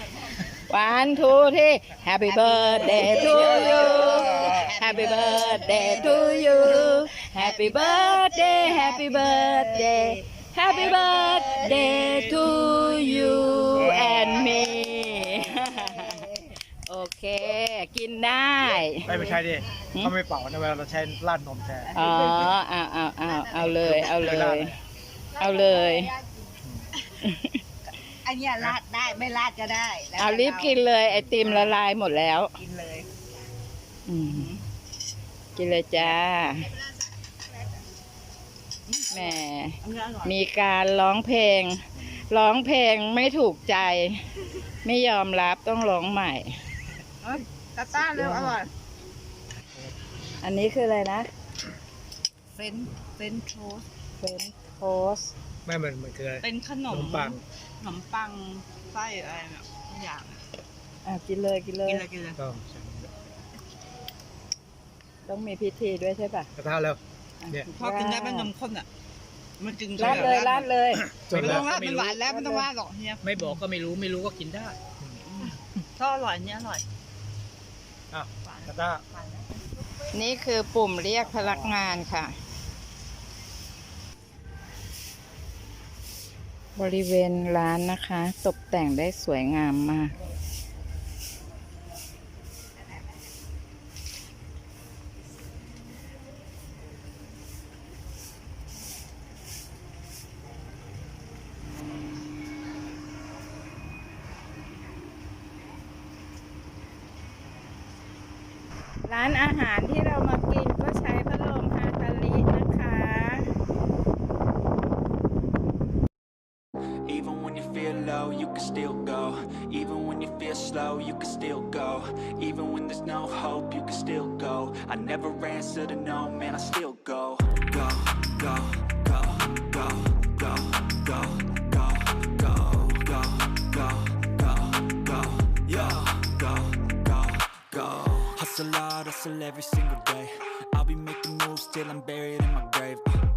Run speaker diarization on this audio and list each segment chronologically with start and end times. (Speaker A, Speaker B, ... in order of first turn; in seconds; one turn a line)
Speaker A: 0.5-16.2
Speaker B: 2.2-16.6
Speaker C: 11.9-12.2
Speaker A: 16.9-19.1
Speaker D: 19.0-21.9
Speaker B: 19.1-19.4
Speaker B: 21.8-22.6
Speaker A: 21.9-24.7
Speaker B: 23.3-23.7
Speaker D: 23.6-24.8
Speaker A: 25.4-26.1
Speaker B: 25.4-26.2
Speaker B: 26.9-27.3
Speaker A: 27.2-27.6
Speaker B: 28.1-30.8
Speaker A: 30.2-32.5
Speaker B: 31.4-31.8
Speaker B: 32.5-33.1
Speaker A: 34.1-34.5
Speaker B: 34.2-34.6
Speaker A: 35.5-36.7
Speaker B: 38.9-40.4
Speaker A: 39.1-44.2
Speaker A: 44.8-46.5
Speaker B: 47.2-48.7
Speaker D: 48.0-48.5
Speaker A: 50.4-51.3
Speaker B: 52.5-53.8
Speaker A: 54.2-55.3
Speaker D: 55.6-57.4
Speaker B: 56.4-60.4
Speaker A: 61.0-62.0
Speaker B: 61.9-62.4
Speaker D: 62.4-63.2
Speaker A: 65.2-66.5
Speaker D: 66.5-67.7
Speaker A: 67.4-68.5
Speaker B: 67.8-68.9
Speaker B: 69.6-73.5
Speaker A: 70.0-71.1
Speaker D: 70.0-70.4
Speaker D: 71.2-71.8
Speaker C: 71.8-72.1
Speaker A: 72.0-72.7
Speaker C: 73.2-74.8
Speaker B: 75.2-76.8
Speaker D: 78.1-79.0
Speaker B: 78.4-79.6
Speaker A: 80.1-82.3
Speaker A: 86.8-90.1
Speaker A: 109.0-113.5
Speaker E: 117.0-143.2